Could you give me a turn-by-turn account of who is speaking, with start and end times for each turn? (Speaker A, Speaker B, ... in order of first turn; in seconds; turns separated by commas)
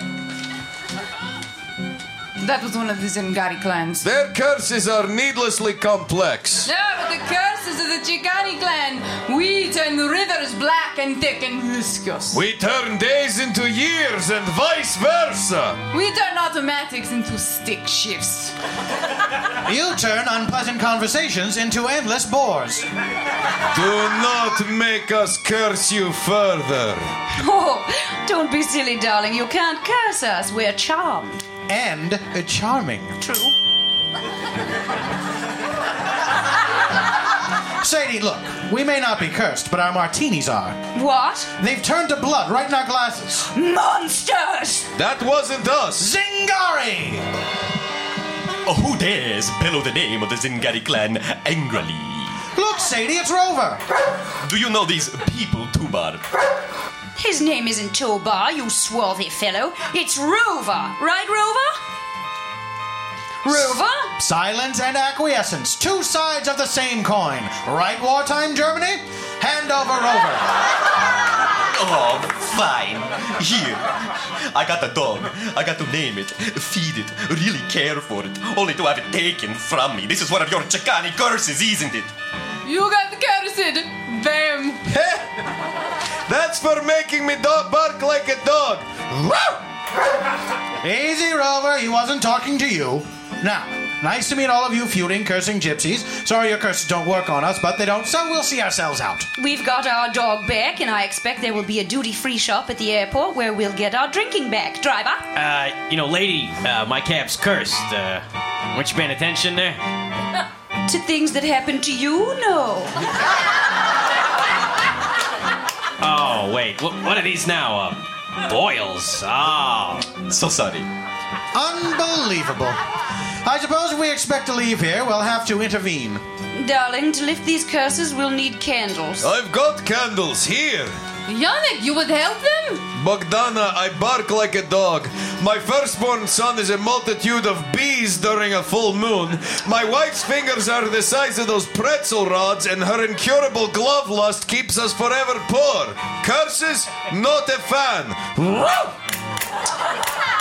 Speaker A: 2.4-4.0, Speaker B: 4.0-6.7, Speaker A: 6.7-12.4, Speaker B: 12.3-15.8, Speaker A: 15.9-18.5, Speaker C: 19.6-22.9, Speaker B: 23.7-27.1, Speaker D: 27.4-31.4, Speaker C: 31.7-33.1, Speaker D: 33.2-33.5, Speaker C: 37.8-40.8, Speaker D: 40.9-41.5, Speaker C: 41.6-43.5, Speaker D: 43.5-44.9, Speaker B: 45.0-46.1, Speaker C: 46.0-47.2, Speaker E: 48.6-52.4, Speaker C: 52.5-53.8, Speaker E: 54.4-56.2, Speaker D: 57.2-61.7, Speaker D: 63.4-64.1, Speaker C: 63.5-70.4, Speaker E: 71.7-82.1, Speaker A: 82.6-84.8, Speaker B: 84.9-85.2, Speaker B: 86.3-89.6, Speaker C: 90.8-99.3, Speaker D: 99.4-105.2, Speaker F: 105.3-109.8, Speaker D: 110.9-112.9, Speaker F: 116.0-120.2, Speaker E: 120.2-120.9, Speaker C: 121.5-122.8, Speaker C: 123.4-126.2, Speaker D: 126.5-129.3, Speaker B: 129.2-130.9, Speaker A: 131.3-132.8, Speaker B: 132.9-148.9